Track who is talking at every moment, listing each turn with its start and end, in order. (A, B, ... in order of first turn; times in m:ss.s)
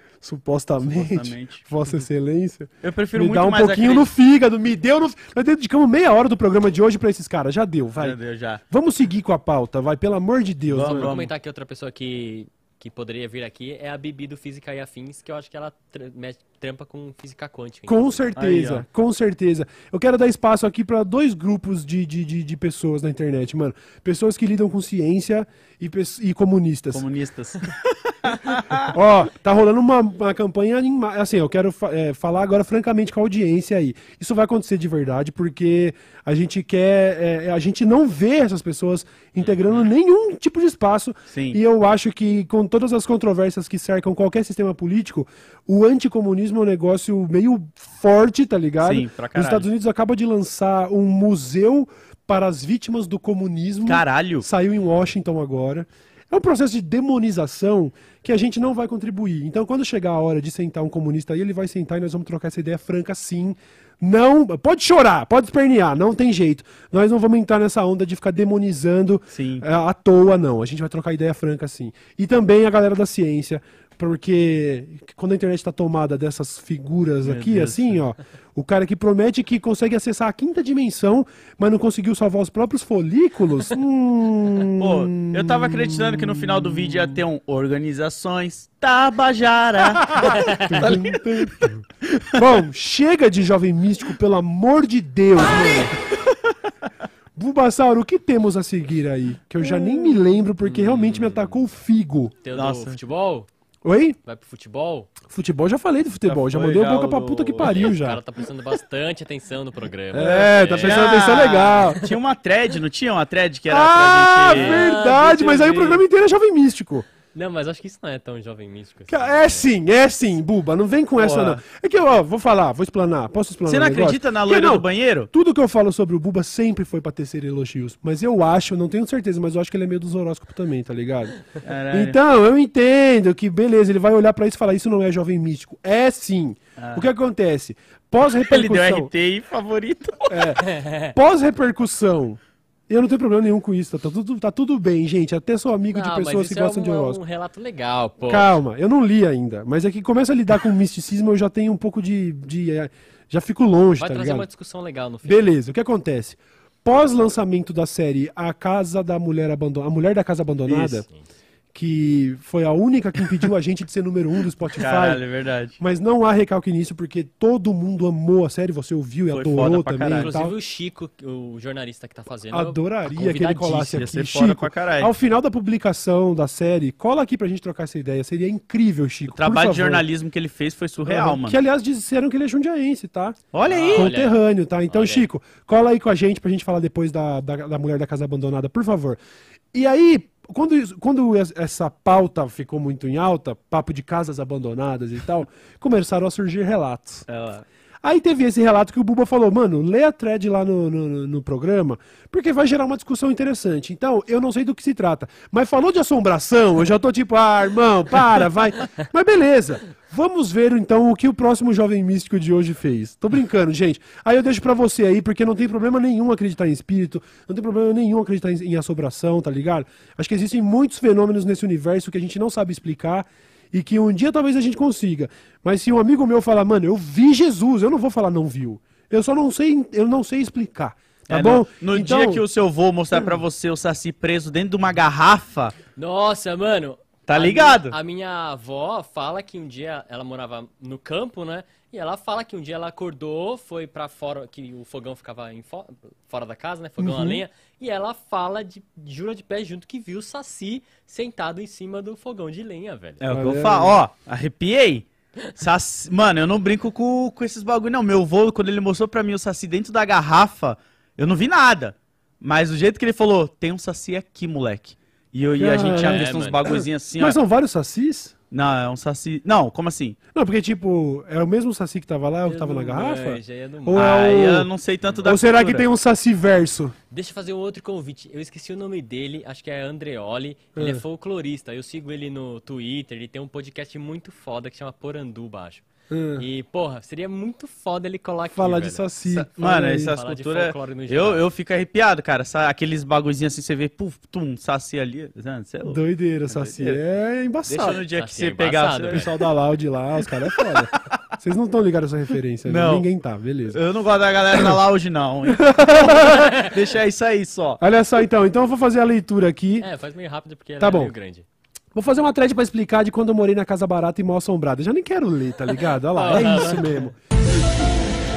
0:00.2-0:08.2 A
0:00.8-0:01.7 B
0:02.8-0:04.1 B
0:08.0-0:08.6 B
0:08.7-0:11.2 A
0:10.7-0:11.3 B
0:10.8-0:18.3 C
0:17.9-0:27.0 A
0:18.4-0:18.8 B
0:26.9-0:28.9 B
0:28.9-1:27.2 A
0:39.4-0:39.8 B
0:41.3-0:41.6 B
0:48.8-0:49.7 B
0:53.9-0:54.4 B
1:09.3-1:09.6 B
1:17.2-1:18.0 B
1:24.8-1:31.5 B
1:30.1-1:36.0 A
1:30.4-1:30.8 C
1:32.2-1:32.4 B
1:37.4-1:42.4 A
1:40.6-1:41.6 C
1:42.4-1:43.5 C
1:42.6-1:43.0 B
1:43.8-1:44.2 A
1:44.2-1:45.1 C
1:45.3-1:48.2 A
1:46.3-1:47.9 B
1:47.6-1:52.0 C
1:50.1-1:52.1 A
1:50.2-1:54.9 B
1:53.7-1:57.1 A
1:54.5-1:56.0 C
1:57.3-1:59.7 C
1:59.1-2:11.4 A
2:01.2-2:01.6 B
2:03.7-2:05.3 B
2:11.6-2:12.2 B
2:11.9-2:19.1 A
2:16.8-2:17.0 B
2:18.5-2:20.5 B
2:20.3-2:27.2 A
2:20.6-2:21.1 C
2:25.9-2:28.6 C
2:28.2-2:34.5 A
2:34.0-2:35.4 C
2:35.2-2:41.0 A
2:40.7-2:41.0 B
2:41.0-2:41.3 C
2:41.7-2:45.2 A
2:44.8-2:45.8 B
2:45.8-2:50.6 A
2:49.3-2:50.3 B
2:50.1-2:54.1 C
2:52.5-3:00.0 A
2:53.9-2:55.1 B
2:59.3-3:01.6 B
3:01.0-3:03.4 A
3:03.5-3:04.1 B
3:03.7-3:05.3 C
3:03.9-3:09.2 A
3:09.7-3:17.3 A
3:17.3-3:17.6 B
3:18.0-3:52.4 A
3:51.3-3:55.7 B
3:53.1-3:53.4 A
3:56.0-4:13.2 C
3:57.3-3:57.9 B
4:07.0-4:07.4 A
4:13.2-4:27.4 B
4:13.3-4:14.0 A
4:25.6-4:28.3 A
4:26.0-4:26.7 C
4:28.5-4:30.2 B
4:30.3-4:34.7 A
4:32.5-4:34.0 C
4:33.9-4:35.9 B
4:35.2-4:37.0 A
4:37.1-4:45.8 C
4:40.8-4:41.0 A
4:46.1-4:46.4 A
4:46.4-4:49.1 C
4:48.5-4:50.1 A
4:49.3-4:57.0 B
4:50.1-4:51.4 C
4:55.9-4:58.0 A
4:57.7-4:59.4 B
4:58.1-4:59.3 C
4:59.1-5:03.8 A
5:02.7-5:03.1 B
5:03.7-5:07.8 B
5:05.5-5:06.6 A
5:07.8-5:09.9 A
5:09.8-5:11.5 C
5:10.8-5:11.1 A
5:11.9-5:17.2 A
5:16.1-5:17.1 C